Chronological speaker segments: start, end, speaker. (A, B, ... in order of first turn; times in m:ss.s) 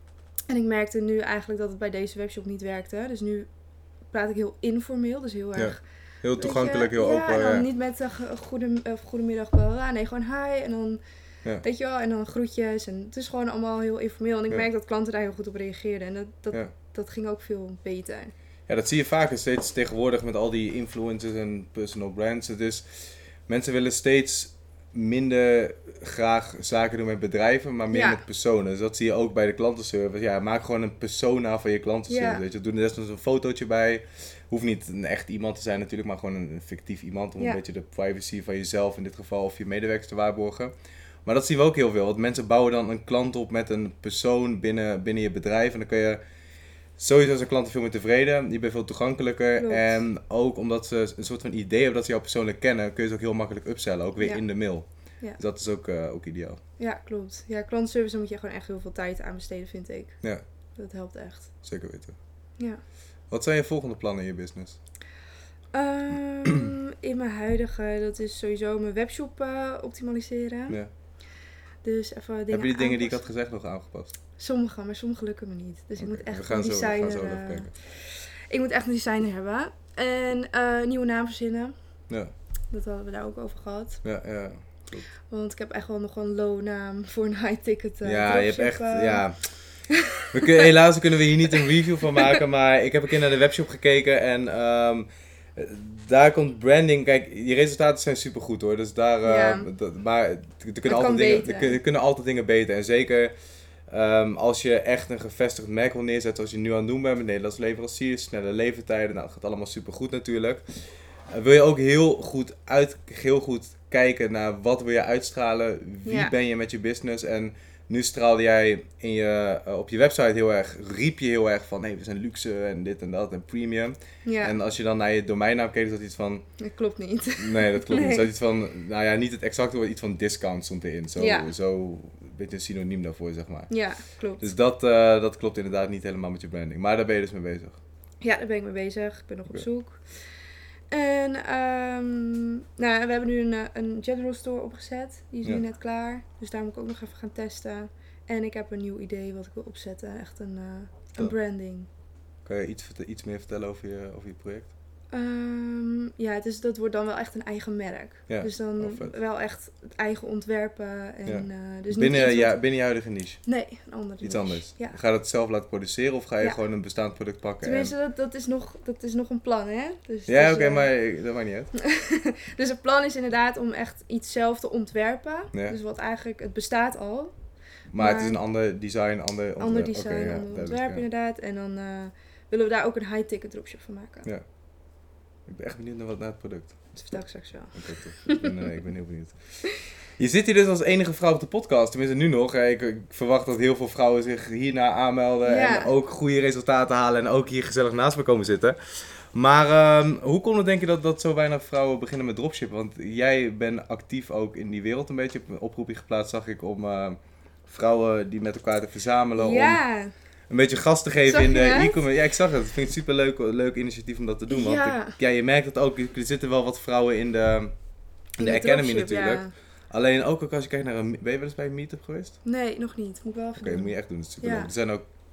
0:00.5-0:03.5 A
0:04.0-0:11.0 A
0:05.5-0:07.6 B
0:11.6-0:18.3 A
0:18.7-0:40.7 B
0:27.9-0:28.2 A
0:32.1-0:32.4 A
0:41.2-0:46.2 B
0:47.0-0:56.6 B
0:49.6-0:50.0 A
0:54.2-0:55.4 A
0:56.8-1:00.2 A
1:00.7-1:01.6 A
1:01.6-1:02.2 B
1:03.3-1:04.8 B
1:05.7-1:10.8 A
1:11.8-1:13.3 A
1:12.5-1:14.1 B
1:14.4-1:21.7 A
1:16.0-1:17.7 B
1:22.7-1:24.0 A
1:24.0-1:25.1 B
1:25.3-1:30.7 A
1:28.0-1:43.3 B
1:39.2-1:39.7 A
1:40.8-1:41.8 A
1:43.9-2:06.5 B
1:56.0-1:56.3 A
2:04.2-2:04.6 A
2:06.6-2:08.2 A
2:07.4-2:17.8 B
2:11.2-2:11.5 A
2:13.7-2:14.5 A
2:18.2-2:31.9 A
2:32.4-2:34.7 B
2:35.1-2:42.6 A
2:38.3-2:39.1 B
2:41.2-2:43.4 B
2:43.4-2:45.0 A
2:44.2-2:47.9 B
2:47.6-2:50.9 A
2:50.3-2:51.7 B
2:51.9-2:58.4 A
2:55.5-2:55.8 B
2:57.9-3:01.0 B
2:59.6-3:04.3 A
3:05.4-3:07.0 B
3:06.9-3:08.7 A
3:07.7-3:29.8 B
3:15.4-3:15.9 A
3:29.4-3:30.1 A
3:30.5-3:42.4 B
3:31.3-3:32.0 A
3:34.5-3:35.2 A
3:38.4-3:39.5 A
3:42.4-3:44.7 A
3:43.6-3:45.1 B